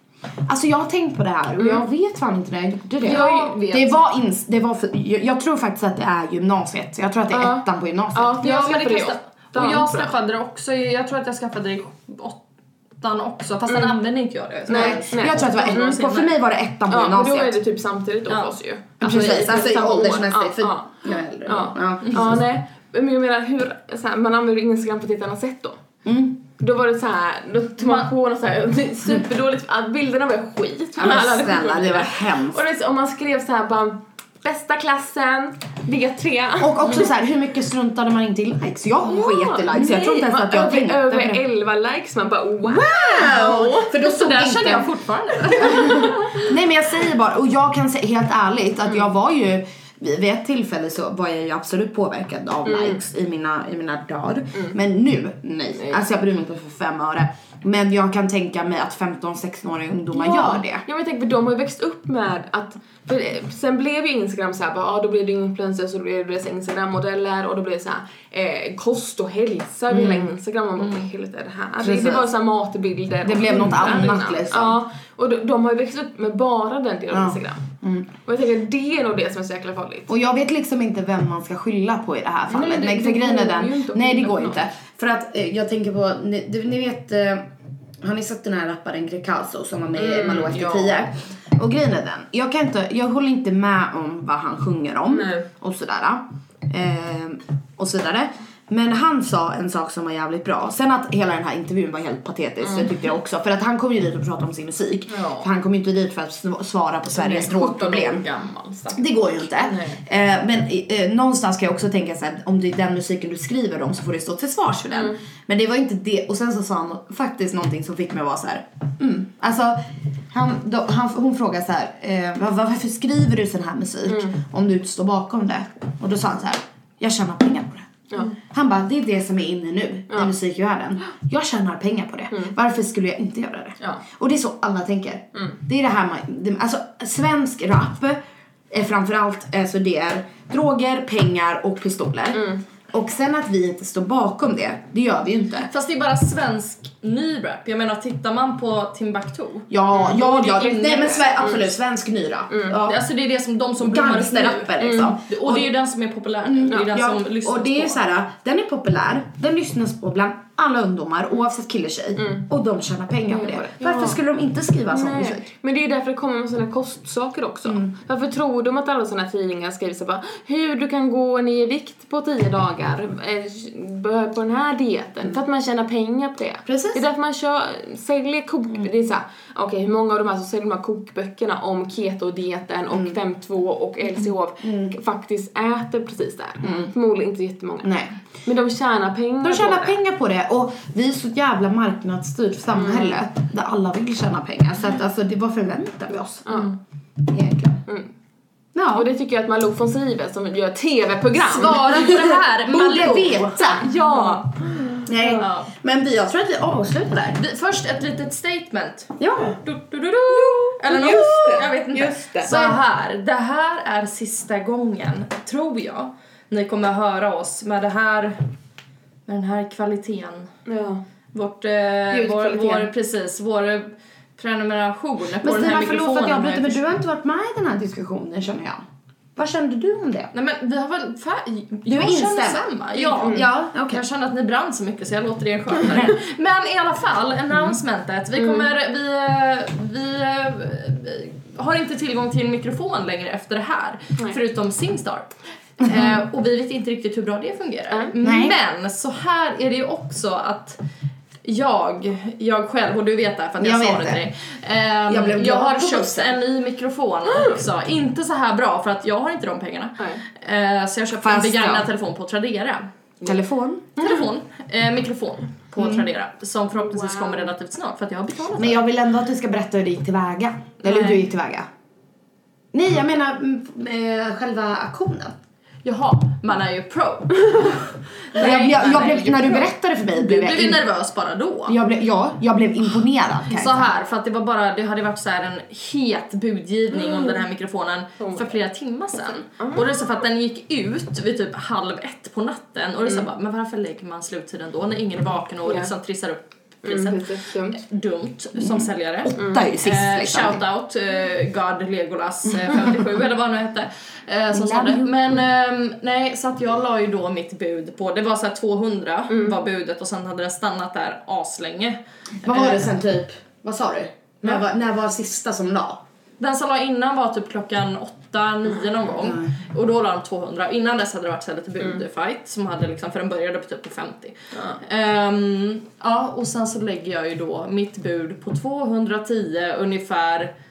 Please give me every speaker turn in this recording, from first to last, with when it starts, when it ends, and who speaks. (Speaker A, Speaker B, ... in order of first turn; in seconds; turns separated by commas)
Speaker A: 0.5-8.4, Speaker B: 1.6-1.9, Speaker B: 3.0-4.0, Speaker C: 3.0-3.5, Speaker B: 7.3-10.2, Speaker C: 8.4-12.4, Speaker C: 13.0-16.3, Speaker B: 13.7-14.0, Speaker B: 14.7-16.0, Speaker A: 14.7-17.6, Speaker B: 16.9-25.8, Speaker C: 18.3-18.5, Speaker A: 19.0-22.4, Speaker A: 26.0-26.4, Speaker B: 26.6-37.0, Speaker C: 27.8-28.1, Speaker A: 31.0-32.6, Speaker A: 36.6-41.4, Speaker B: 39.0-43.9, Speaker C: 39.7-40.2, Speaker A: 42.6-44.9, Speaker C: 43.2-46.4, Speaker A: 45.6-60.8, Speaker B: 45.7-46.1, Speaker B: 52.6-53.0, Speaker B: 55.8-56.0, Speaker B: 60.1-77.7, Speaker A: 69.9-70.3, Speaker A: 71.8-72.2, Speaker A: 73.2-74.8, Speaker A: 77.1-78.1, Speaker B: 78.2-80.1, Speaker A: 80.1-87.4, Speaker B: 82.5-84.6, Speaker A: 88.0-108.2, Speaker B: 89.9-91.1, Speaker B: 95.1-95.5, Speaker B: 105.1-105.5, Speaker B: 107.1-110.0, Speaker A: 108.9-119.8, Speaker A: 120.3-138.2, Speaker B: 124.1-124.4, Speaker B: 128.1-128.3, Speaker A: 138.7-145.7, Speaker B: 142.3-142.6, Speaker C: 145.6-151.5, Speaker A: 149.7-153.0, Speaker B: 150.7-151.6, Speaker B: 152.5-152.8, Speaker C: 152.7-158.0, Speaker A: 153.8-155.7, Speaker B: 154.8-155.1, Speaker A: 156.4-165.5, Speaker B: 162.2-162.4, Speaker B: 163.3-164.2, Speaker B: 164.9-187.9, Speaker A: 176.7-177.0, Speaker A: 184.6-184.9, Speaker A: 186.6-186.9, Speaker A: 187.8-188.1, Speaker B: 188.4-190.0, Speaker A: 189.4-196.5, Speaker B: 192.8-193.1, Speaker B: 196.4-196.7, Speaker A: 197.3-197.8, Speaker B: 197.8-198.1, Speaker A: 198.7-199.1, Speaker B: 198.9-202.0, Speaker C: 201.5-204.5, Speaker A: 201.9-203.9, Speaker B: 203.6-205.5, Speaker A: 205.1-207.4, Speaker C: 205.4-205.7, Speaker C: 207.4-218.4, Speaker A: 209.2-209.6, Speaker B: 210.4-212.6, Speaker A: 211.0-211.6, Speaker A: 212.5-212.8, Speaker C: 219.3-220.5, Speaker B: 220.7-221.0, Speaker C: 221.3-226.8, Speaker B: 222.1-222.9, Speaker A: 225.4-228.8, Speaker A: 229.3-230.3, Speaker C: 230.3-250.8, Speaker A: 231.8-234.0, Speaker B: 233.1-233.4, Speaker B: 238.4-238.6, Speaker A: 245.8-246.1, Speaker A: 248.2-248.6, Speaker C: 251.4-262.9, Speaker A: 253.6-254.3, Speaker A: 255.1-256.4, Speaker A: 261.2-261.9, Speaker A: 263.2-263.9, Speaker C: 264.0-268.8, Speaker A: 265.8-266.1, Speaker B: 266.9-267.4, Speaker A: 268.6-271.7, Speaker C: 270.8-271.2, Speaker A: 272.7-275.3, Speaker C: 275.8-281.8, Speaker A: 278.4-280.8, Speaker A: 281.7-283.9, Speaker C: 283.5-312.9, Speaker B: 288.2-288.5, Speaker B: 296.8-297.8, Speaker A: 298.6-300.6, Speaker A: 304.5-305.1, Speaker A: 312.4-316.0, Speaker C: 316.4-330.5, Speaker A: 319.2-319.5